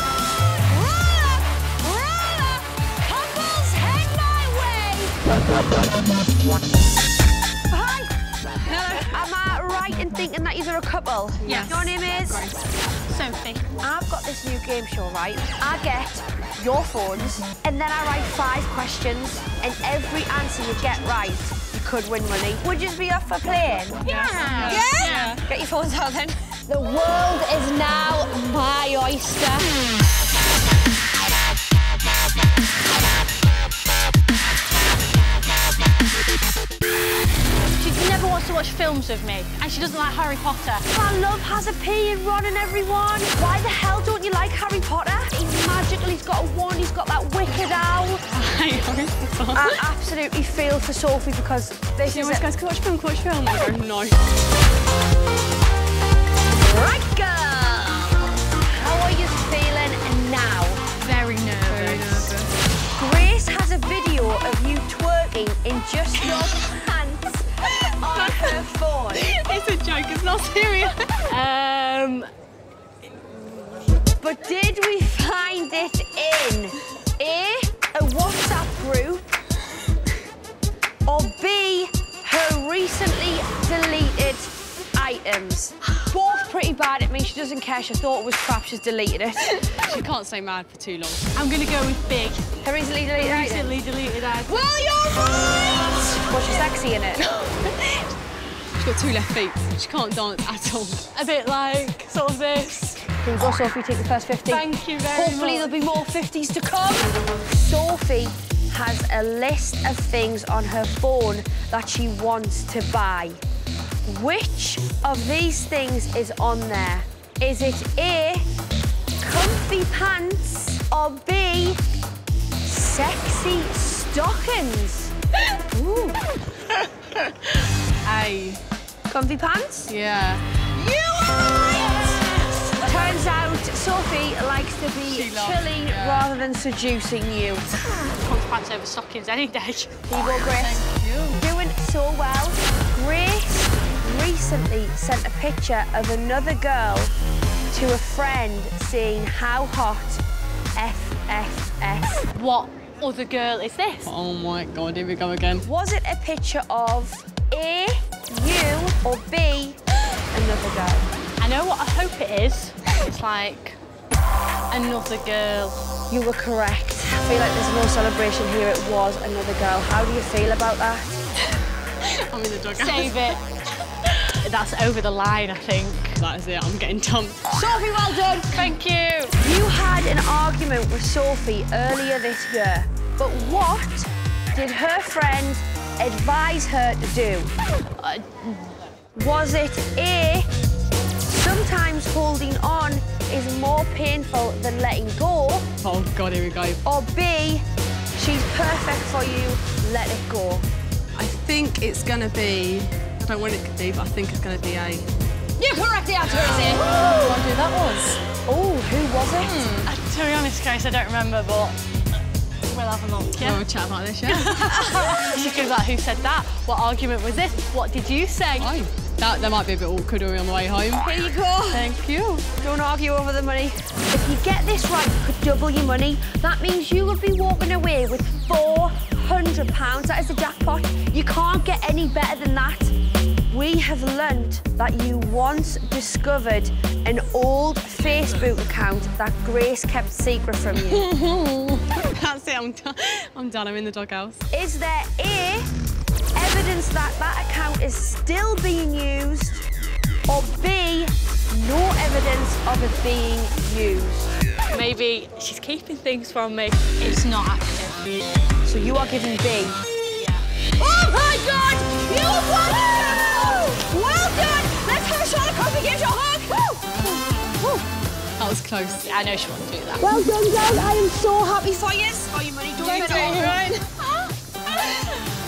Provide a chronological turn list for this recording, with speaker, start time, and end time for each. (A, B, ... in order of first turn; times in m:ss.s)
0:00.6-0:05.2 A
0:07.7-0:08.1 A
0:08.6-0:09.1 B
0:08.9-0:12.5 A
0:11.4-0:12.6 B
0:11.4-0:11.9 C
0:13.1-0:13.7 C
0:13.8-0:29.8 A
0:24.0-0:25.4 C
0:24.1-0:25.4 B
0:37.8-0:40.9 C
0:40.9-0:48.3 A
0:48.3-0:49.8 B
0:49.5-0:52.5 A
0:52.1-0:54.2 B
0:56.5-1:00.8 A
1:01.0-1:02.3 C
1:01.7-1:02.6 B
1:03.0-1:09.3 A
1:08.1-1:08.6 B
1:09.1-1:11.0 B
1:11.3-1:12.3 C
1:14.2-1:19.3 A
1:21.1-1:29.7 A
1:29.8-1:31.3 B
1:31.4-1:32.4 C
1:32.6-1:33.8 A
1:33.2-1:34.9 C
1:35.8-1:37.2 A
1:37.4-1:38.1 C
1:38.8-1:41.1 B
1:41.1-1:43.0 C
1:43.1-1:53.4 A
1:44.5-1:45.8 C
1:54.1-1:58.4 A
1:59.2-2:01.8 A
2:02.6-2:05.1 A
2:05.9-2:06.1 C
2:08.0-2:08.6 B
2:09.1-2:09.9 A
2:09.9-2:10.6 B
2:10.8-2:11.4 A
2:12.8-2:17.7 A
2:15.0-2:16.3 B
2:18.0-2:20.1 C
2:20.1-2:27.1 A
2:20.6-2:21.4 B
2:27.7-2:30.2 A
2:30.8-2:32.3 A
2:32.4-2:34.1 C
2:34.1-2:35.6 B
2:35.6-2:39.8 A
2:40.3-2:41.1 A
2:41.4-2:43.8 C
2:44.7-2:45.8 C
2:46.1-2:51.2 A
2:52.1-2:53.4 B
2:52.7-2:53.4 C
2:54.1-2:56.2 C
2:56.2-2:57.4 B
2:57.5-2:58.7 A
2:58.5-2:59.4 C
2:59.4-3:07.5 A
3:08.0-3:08.5 C
3:09.2-3:10.5 A
3:11.2-3:15.7 A
3:15.8-3:16.8 B
3:16.8-3:17.6 A
3:18.2-3:20.7 A
3:21.2-3:25.1 B
3:25.6-3:27.4 C
3:25.6-3:27.1 A
3:26.4-3:28.2 B
3:28.5-3:29.7 A
3:29.4-3:29.9 B
3:29.8-3:31.8 C
3:32.7-3:33.6 C
3:33.3-3:35.0 B
3:34.3-3:38.7 C
3:38.6-3:41.1 B
3:41.0-3:41.9 A
3:41.7-3:42.5 B
3:42.6-3:52.9 A
3:53.5-4:01.1 A
4:00.8-4:04.4 B
4:04.5-4:05.7 A
4:06.4-4:09.6 A
4:10.3-4:14.3 A
4:14.7-4:18.0 C
4:18.7-4:19.8 A
4:20.2-4:20.4 C
4:20.8-4:27.0 A
4:28.4-4:29.1 B
4:29.0-4:30.0 C
4:30.0-4:34.1 A
4:32.8-4:33.8 B
4:32.9-4:33.6 C
4:34.7-4:35.0 A